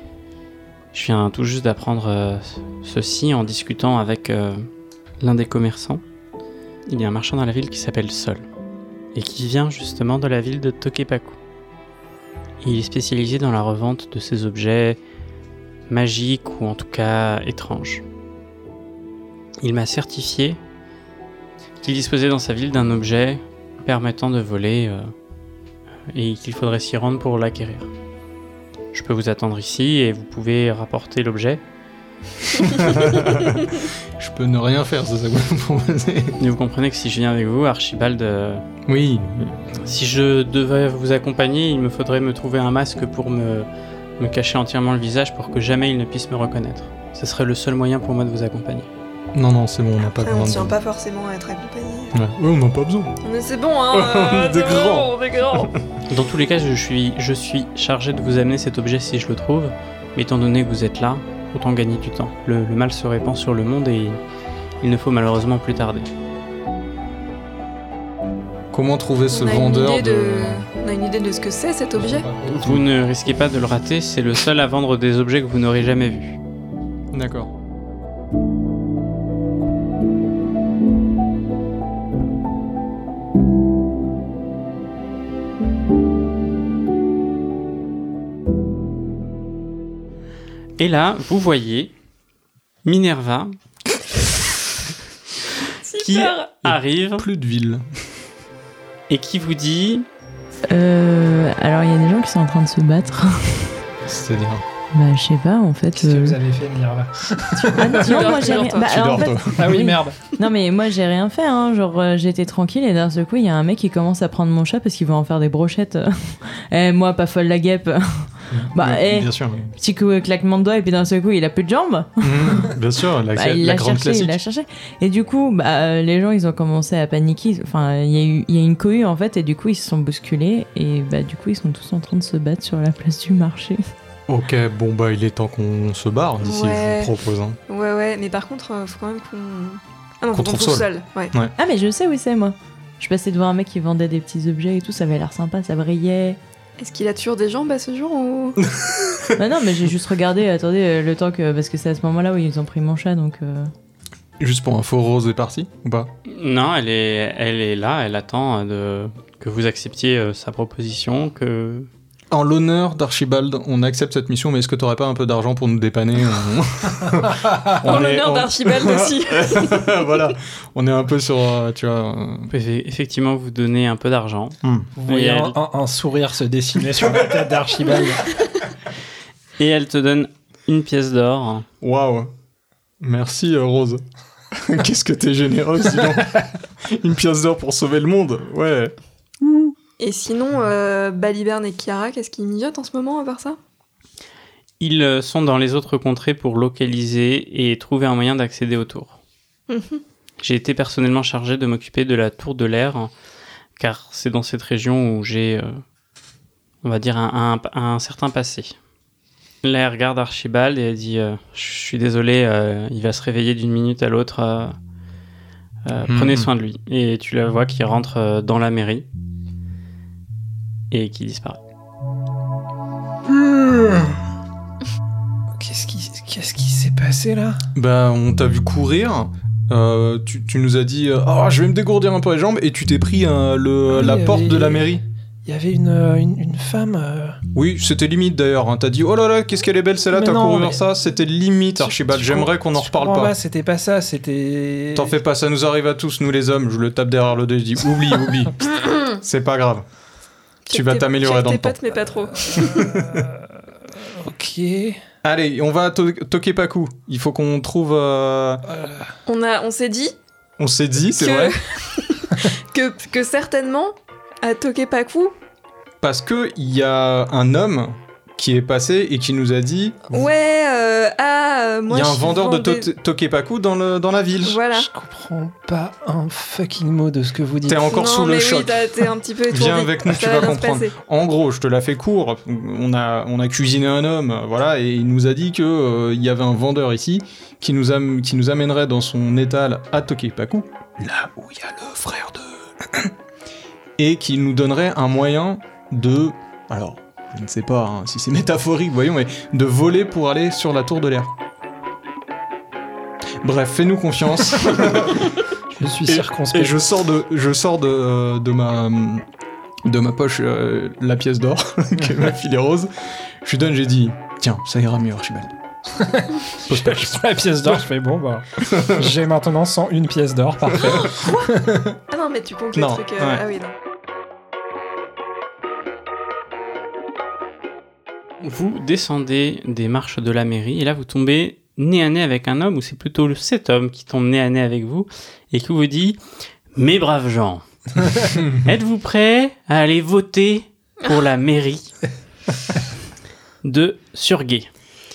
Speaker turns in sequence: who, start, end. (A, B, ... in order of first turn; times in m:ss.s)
0:00.9-0:04.7 A
0:05.2-0:06.0 A
0:06.9-0:08.4 A
0:09.1-0:11.4 A
0:12.6-0:15.0 A
0:15.9-0:18.0 A
0:19.6-0:20.6 A
0:21.8-0:25.1 A
0:26.1-0:27.9 A
0:28.9-0:31.6 A
0:32.6-0:36.4 B
0:36.4-0:38.6 A
0:38.8-0:39.5 B
0:39.8-0:43.7 A
0:44.2-0:48.9 A
0:49.3-0:50.7 B
0:50.2-0:52.1 C
0:52.1-0:53.1 B
0:53.2-0:55.7 C
0:53.9-0:55.8 B
0:56.1-1:04.2 A
1:04.8-1:06.1 A
1:08.7-1:10.7 B
1:09.3-1:12.3 C
1:12.0-1:12.8 B
1:12.5-1:16.4 A
1:17.1-1:17.5 B
1:30.8-1:31.9 A
1:32.8-1:33.6 A
1:35.8-1:36.5 C
1:36.0-1:37.3 A
1:36.6-1:37.8 B
1:39.1-1:40.0 A
1:40.7-1:43.7 D
1:44.0-1:44.6 B
1:44.9-1:46.4 D
1:46.0-1:48.3 E
1:47.5-1:49.0 C
1:47.7-2:02.7 D
1:48.8-1:49.7 B
1:49.6-1:50.2 E
1:58.5-1:59.7 B
2:02.2-2:04.4 B
2:03.3-2:13.8 D
2:14.3-2:17.6 B
2:16.4-2:17.1 C
2:17.7-2:21.3 C
2:20.3-2:21.5 B
2:21.6-2:26.4 D
2:26.8-2:28.6 C
2:28.6-2:29.3 B
2:29.4-2:33.7 D
2:34.4-2:36.1 B
2:36.3-2:41.9 A
2:42.3-2:52.5 B
2:47.4-2:47.7 E
2:47.8-2:49.9 C
2:52.5-2:55.6 A
2:54.6-2:54.9 B
2:55.0-2:58.3 E
2:59.6-3:01.6 A
3:01.8-3:02.3 B
3:03.0-3:04.0 B
3:04.5-3:08.9 B
3:10.0-3:13.6 C
3:14.8-3:19.2 A
3:19.7-3:20.0 C
3:20.4-3:23.1 A
3:23.8-3:25.8 A
3:26.8-3:28.8 A
3:29.6-3:34.8 A
3:35.8-3:39.0 A
3:36.1-3:36.5 B
3:40.9-3:41.6 A
3:43.3-3:44.1 B
3:45.5-3:47.7 E
3:47.7-3:55.0 B
3:53.9-3:54.9 E
3:55.4-3:57.4 E
3:57.5-4:03.4 B
4:00.1-4:00.8 E
4:01.8-4:05.1 E
4:04.9-4:09.8 B
4:10.7-4:12.9 C
4:10.7-4:11.8 B
4:12.7-4:13.3 B
4:12.9-4:13.3 E
4:14.0-4:15.0 E
4:15.2-4:18.6 B
4:18.7-4:19.1 E
4:19.2-4:20.1 C
4:20.6-4:21.6 B
4:21.2-4:25.3 C
4:26.0-4:30.3 B
4:30.1-4:32.9 C
4:31.9-4:34.6 B
4:34.4-4:34.9 C
4:34.7-4:37.9 E
4:37.7-4:53.1 B
4:37.8-4:40.9 C
4:54.0-5:01.3 B
5:03.4-5:05.3 B
5:05.7-5:06.8 E
5:06.0-5:09.2 B
5:09.8-5:15.5 B
5:16.0-5:21.9 E
5:16.7-5:17.8 B
5:18.6-5:19.1 B
5:20.8-5:23.7 C
5:22.7-5:23.4 B
5:28.4-5:36.2 A
5:36.7-5:41.9 A
5:43.6-5:44.7 A